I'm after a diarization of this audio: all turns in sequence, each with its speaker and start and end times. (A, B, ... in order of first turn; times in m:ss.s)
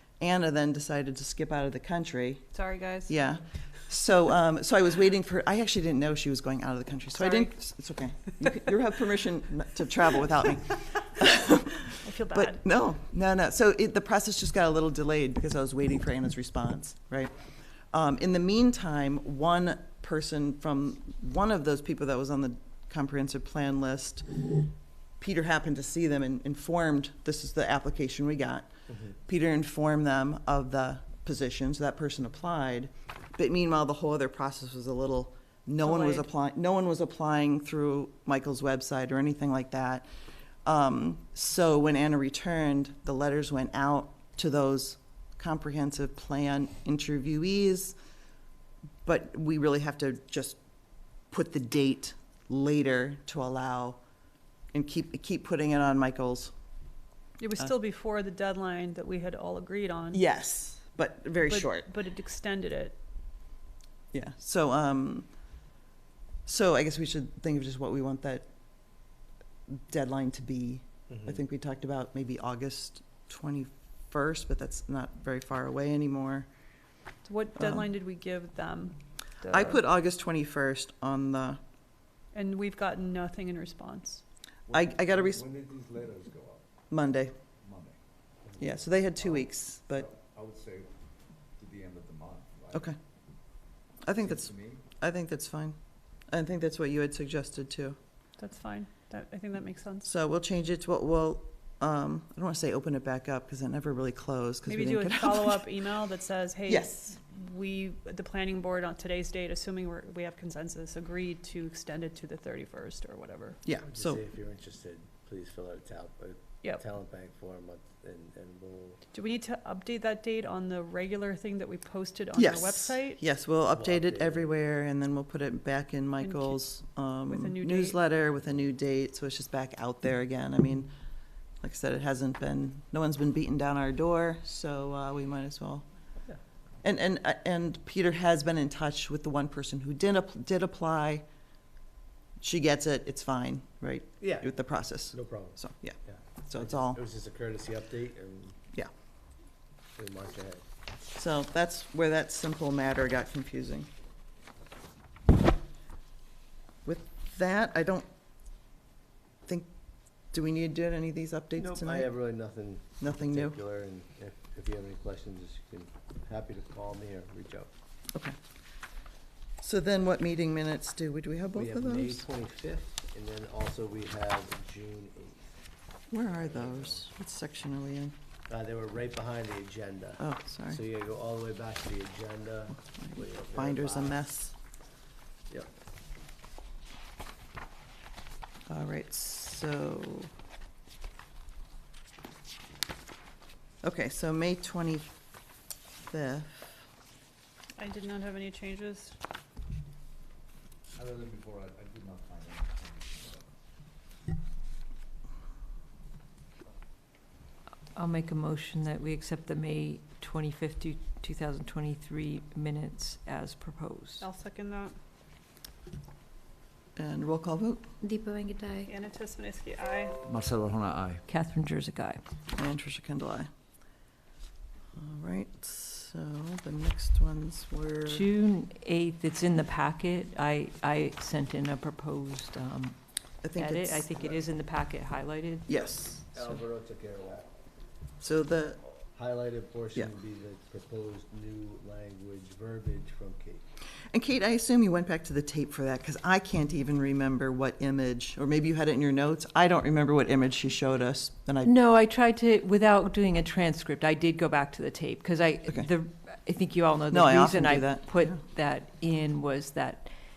0:00.2-0:02.5 A
0:02.5-0:03.1 B
0:03.1-0:17.3 A
0:07.1-0:07.5 B
0:12.0-0:12.6 B
0:17.9-0:24.5 A
0:25.2-0:28.7 A
0:29.2-0:40.1 A
0:35.8-0:36.3 B
0:40.6-0:48.0 A
0:49.0-0:50.6 A
0:51.3-0:54.0 A
0:54.7-0:56.6 A
0:57.4-1:00.2 B
1:00.1-1:01.9 A
1:01.4-1:03.0 B
1:04.1-1:05.3 A
1:06.4-1:08.5 A
1:09.7-1:16.5 A
1:11.1-1:11.4 C
1:17.2-1:19.8 B
1:17.6-1:17.9 A
1:19.5-1:21.6 A
1:22.3-1:24.2 B
1:24.7-1:26.7 D
1:24.7-1:25.4 A
1:26.9-1:27.3 A
1:27.6-1:28.0 D
1:28.6-1:30.1 A
1:29.2-1:30.9 D
1:31.6-1:32.9 D
1:34.0-1:35.8 A
1:34.2-1:34.8 D
1:36.3-1:38.0 A
1:38.4-1:40.1 B
1:40.0-1:45.7 A
1:44.7-1:53.6 B
1:46.7-1:47.1 A
1:53.6-1:54.2 A
1:53.8-1:59.0 C
1:59.1-2:03.2 B
2:02.4-2:10.9 A
2:03.7-2:04.5 C
2:06.2-2:06.6 B
2:07.3-2:08.0 B
2:11.6-2:15.8 A
2:16.8-2:21.2 A
2:22.4-2:27.0 A
2:24.2-2:24.5 C
2:25.1-2:28.6 C
2:30.0-2:30.6 C
2:31.1-2:33.9 A
2:36.8-2:38.1 A
2:40.3-2:42.1 A
2:41.6-2:47.7 C
2:43.0-2:43.6 A
2:49.6-2:52.2 A
2:51.5-2:55.5 C
2:56.1-2:58.1 A
2:56.3-2:57.0 C
2:58.5-3:04.2 C
3:00.2-3:00.8 A
3:03.0-3:04.5 A
3:08.7-3:10.3 A
3:13.8-3:15.1 A
3:16.0-3:16.8 A
3:17.8-3:19.2 B
3:20.9-3:23.5 D
3:27.9-3:34.3 E
3:34.2-3:35.0 B
3:37.0-3:37.8 A
3:38.0-3:38.9 E
3:38.8-3:40.2 B
3:40.2-3:41.2 D
3:41.3-3:42.2 E
3:42.5-3:43.5 A
3:45.0-3:48.3 A
3:48.0-3:53.0 E
3:53.4-3:54.1 A
3:53.5-3:56.6 E
3:54.1-3:54.4 C
3:55.7-3:56.2 A
3:56.3-3:57.5 C
3:58.2-3:58.8 A
3:59.1-4:03.6 C
4:04.1-4:11.7 A
4:11.6-4:20.1 E
4:17.1-4:18.4 A